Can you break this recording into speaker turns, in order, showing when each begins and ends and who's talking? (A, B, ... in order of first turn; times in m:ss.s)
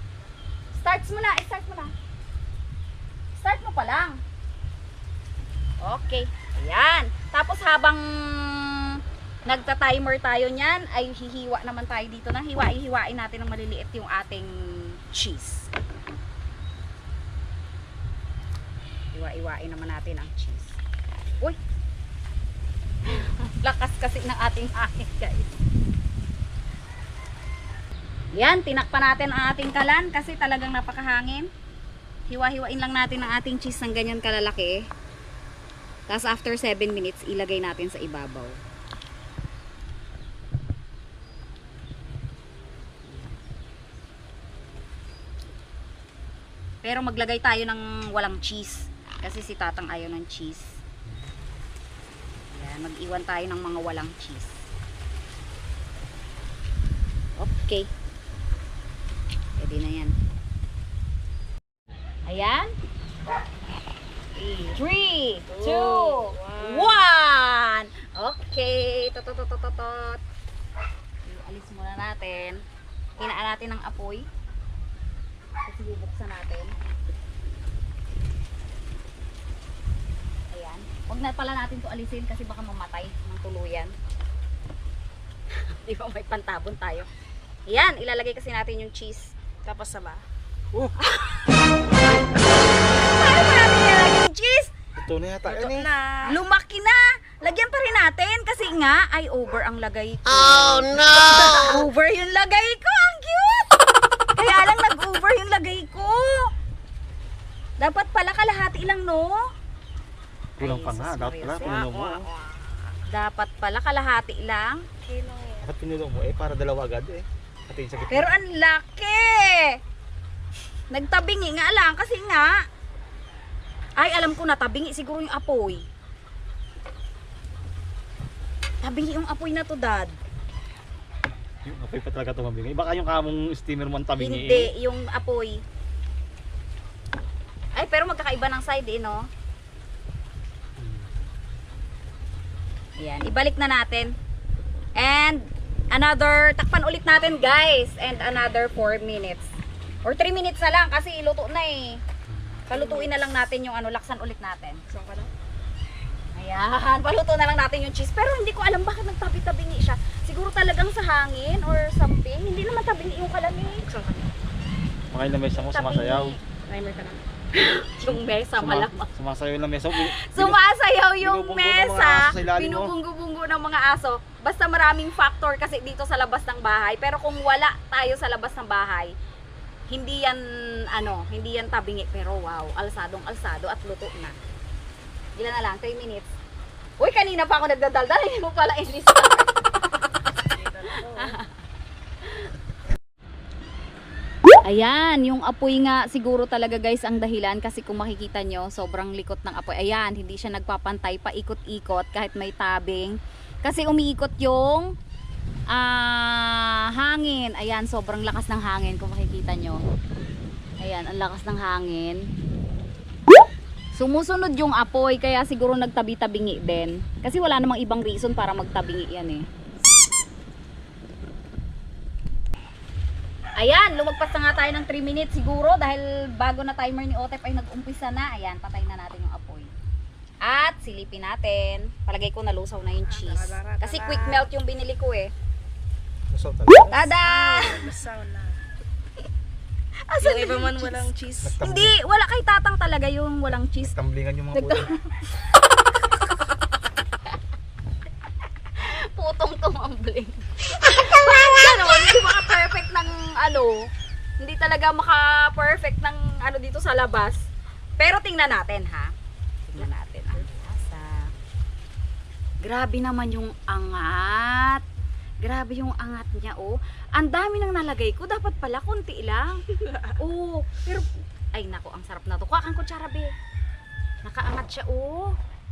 0:00.7-0:01.9 A
0:03.4-0:04.2 A
0:05.8-0:15.7 A
0:19.1-0:20.8 A
0:23.2-0:25.5 A
0:28.4-0:31.5 A
0:32.3-0:34.9 A
0:36.1-0:38.6 A
0:43.0-0:43.3 A
0:46.8-0:50.8 A
0:52.5-0:54.7 A
0:57.4-0:57.9 A
0:59.6-1:00.1 A
1:02.3-1:02.7 A
1:04.4-1:10.2 A
1:05.5-1:07.0 B
1:11.2-1:12.6 A
1:13.2-1:14.3 A
1:15.7-1:16.8 A
1:20.5-1:23.9 A
1:25.5-1:27.1 A
1:27.7-1:29.3 A
1:29.6-1:30.2 B
1:31.0-1:31.6 A
1:32.8-1:34.7 A
1:35.0-1:35.9 C
1:35.5-1:36.4 B
1:36.3-1:43.7 A
1:44.4-1:46.5 A
1:47.8-1:49.4 A
1:50.6-1:51.8 A
1:50.6-1:52.3 C
1:51.6-1:52.8 B
1:53.1-1:54.8 A
1:55.0-1:55.7 B
1:55.6-1:58.3 C
1:58.1-1:59.8 A
2:00.9-2:02.6 A
2:04.0-2:05.8 A
2:08.8-2:10.2 A
2:11.6-2:14.7 C
2:14.2-2:15.6 A
2:17.8-2:19.3 A
2:23.0-2:24.1 A
2:25.0-2:32.0 A
2:32.7-2:34.8 A
2:32.7-2:33.1 B
2:34.9-2:35.3 B
2:36.4-2:43.8 A
2:43.8-2:44.3 B
2:45.1-2:46.4 C
2:45.6-2:46.4 A
2:46.5-2:47.2 B
2:47.6-2:49.1 A
2:48.0-2:50.6 C
2:49.9-2:59.1 A
2:51.2-2:52.9 C
2:59.9-3:04.4 A
3:05.4-3:06.3 A
3:07.0-3:10.0 A
3:10.5-3:11.4 B
3:11.0-3:11.5 A
3:14.6-3:24.9 A
3:25.7-3:29.8 A
3:30.8-3:32.3 A
3:34.0-3:39.4 A
3:43.6-3:49.7 A
3:50.4-3:55.3 A
3:53.1-3:54.5 B
3:56.3-3:57.0 C
3:56.9-3:57.8 A
3:57.1-3:58.6 B
4:00.1-4:01.1 A
4:00.2-4:01.6 B
4:01.4-4:02.0 C
4:01.6-4:03.9 A
4:03.8-4:04.9 C
4:04.5-4:05.3 A
4:08.8-4:17.5 A
4:18.0-4:19.1 A
4:19.7-4:21.3 A
4:22.6-4:24.8 A
4:25.4-4:33.4 A
4:34.2-4:35.4 A